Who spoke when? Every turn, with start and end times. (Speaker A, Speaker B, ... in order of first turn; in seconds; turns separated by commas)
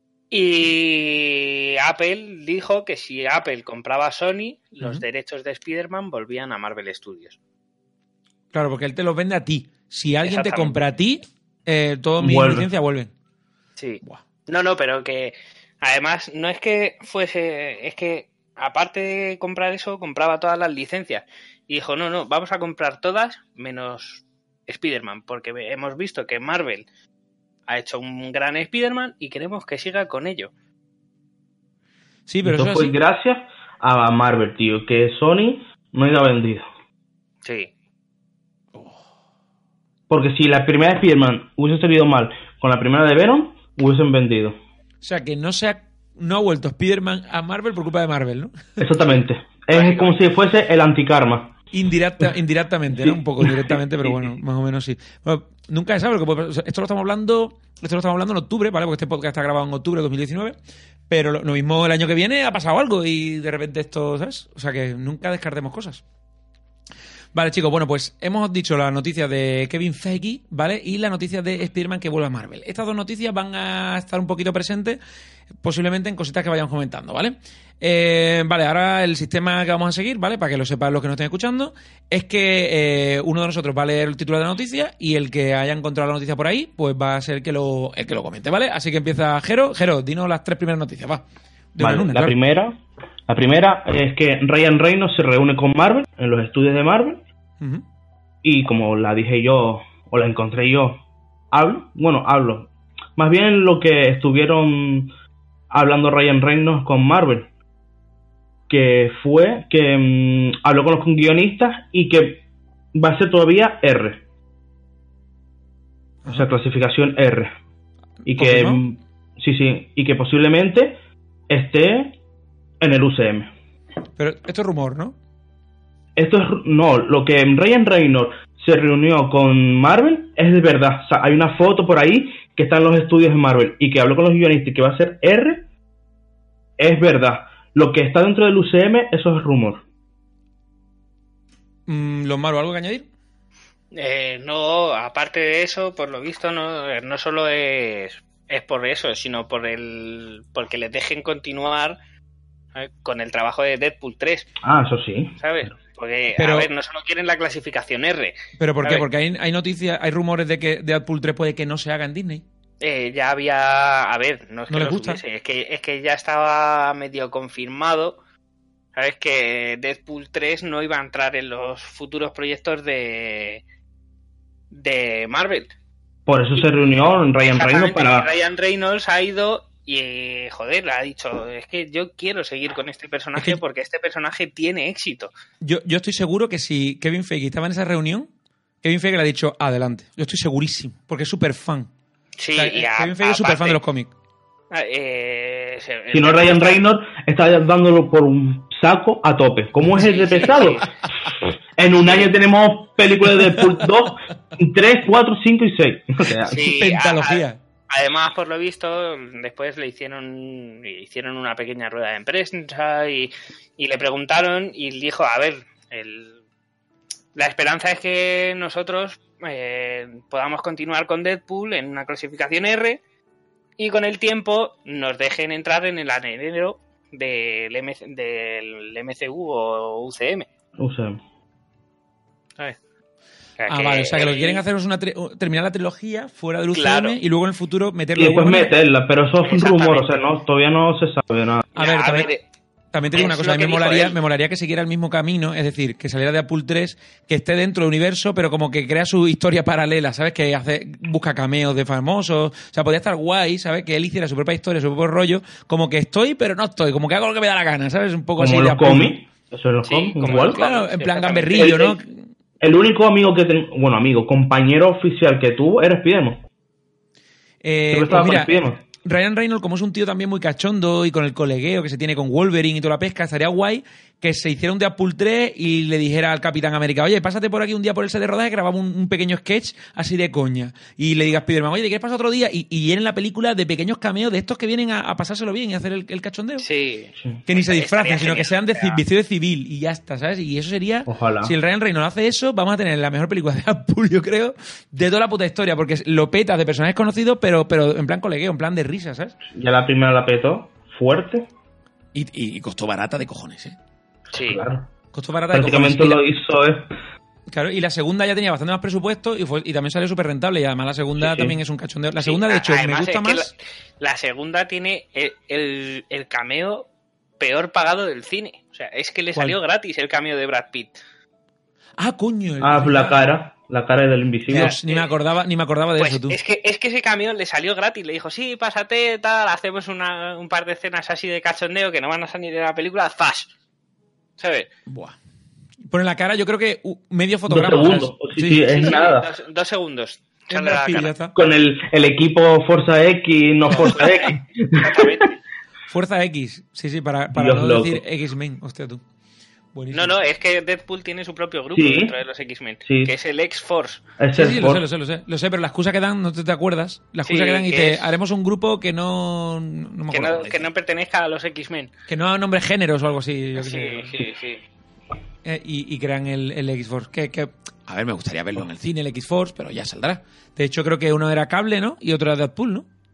Speaker A: 0.3-7.4, Speaker B: 8.5-13.1, Speaker A: 10.2-10.8, Speaker C: 12.2-12.7, Speaker A: 13.8-26.9, Speaker A: 27.7-30.5, Speaker B: 32.3-33.0, Speaker C: 32.4-36.7, Speaker A: 37.4-37.7, Speaker C: 40.1-44.6, Speaker B: 45.0-48.9, Speaker C: 48.8-51.5, Speaker A: 49.7-50.2, Speaker B: 51.7-60.6, Speaker C: 53.0-54.3, Speaker B: 61.1-66.0, Speaker B: 67.3-75.0, Speaker B: 75.6-92.4, Speaker C: 91.8-92.8, Speaker C: 93.3-97.2, Speaker C: 98.4-101.0, Speaker C: 101.5-105.1, Speaker C: 105.7-107.5, Speaker C: 108.7-112.4, Speaker C: 112.9-114.2, Speaker C: 116.3-117.5, Speaker B: 118.3-118.8, Speaker C: 118.3-121.0, Speaker C: 121.5-122.2, Speaker C: 122.8-123.5, Speaker B: 124.2-125.2, Speaker C: 126.2-135.7, Speaker C: 136.8-139.8, Speaker B: 141.9-143.1, Speaker A: 143.9-152.0, Speaker A: 152.8-154.6, Speaker C: 154.6-155.4, Speaker A: 155.4-159.1, Speaker B: 156.3-156.7, Speaker B: 158.6-162.4, Speaker A: 162.8-168.2, Speaker B: 164.7-165.2, Speaker A: 168.9-173.6, Speaker A: 174.7-175.7, Speaker C: 176.3-178.3, Speaker A: 177.5-185.3, Speaker B: 183.3-183.6, Speaker B: 185.6-188.3, Speaker B: 188.8-191.9, Speaker A: 192.4-193.8, Speaker B: 192.6-194.1, Speaker A: 194.7-196.9, Speaker C: 196.1-200.9, Speaker A: 200.0-200.9, Speaker C: 201.8-206.6, Speaker A: 206.5-216.4, Speaker B: 206.5-207.6, Speaker A: 217.3-223.0, Speaker A: 223.8-230.5, Speaker C: 230.8-231.2, Speaker A: 233.6-234.6, Speaker B: 233.7-238.7, Speaker A: 236.7-237.2, Speaker C: 238.2-241.7, Speaker A: 239.4-240.2, Speaker A: 241.8-242.4, Speaker B: 241.8-242.3, Speaker B: 242.9-259.2, Speaker A: 243.1-244.2, Speaker C: 258.4-260.6, Speaker A: 259.8-261.9, Speaker B: 260.3-262.2, Speaker C: 261.6-262.0, Speaker C: 262.6-266.4, Speaker B: 267.6-286.7, Speaker C: 267.9-268.8, Speaker A: 286.6-289.0, Speaker B: 287.5-299.4, Speaker C: 291.1-291.6, Speaker C: 299.5-301.5, Speaker B: 302.1-303.8, Speaker A: 304.3-304.7, Speaker C: 304.4-304.9, Speaker B: 305.1-306.2, Speaker C: 305.5-306.9, Speaker B: 307.5-313.5, Speaker C: 311.2-311.6, Speaker A: 312.2-316.9, Speaker A: 317.4-321.0, Speaker B: 322.0-323.2, Speaker C: 322.6-324.8, Speaker B: 324.5-326.4, Speaker A: 324.5-325.1, Speaker A: 326.0-333.5, Speaker A: 334.4-334.7, Speaker B: 334.9-335.2, Speaker B: 335.9-339.0, Speaker C: 337.5-339.3, Speaker A: 338.7-341.1, Speaker B: 340.5-341.4, Speaker C: 341.4-345.2, Speaker A: 343.7-345.4, Speaker B: 345.9-349.0, Speaker C: 347.3-348.0, Speaker B: 349.7-350.1, Speaker A: 349.9-354.0, Speaker C: 351.7-352.1, Speaker C: 352.9-353.1, Speaker C: 354.2-354.8, Speaker B: 354.3-360.7, Speaker A: 357.2-358.1, Speaker A: 360.1-361.9, Speaker B: 362.1-364.2, Speaker A: 363.6-364.6, Speaker B: 365.4-372.9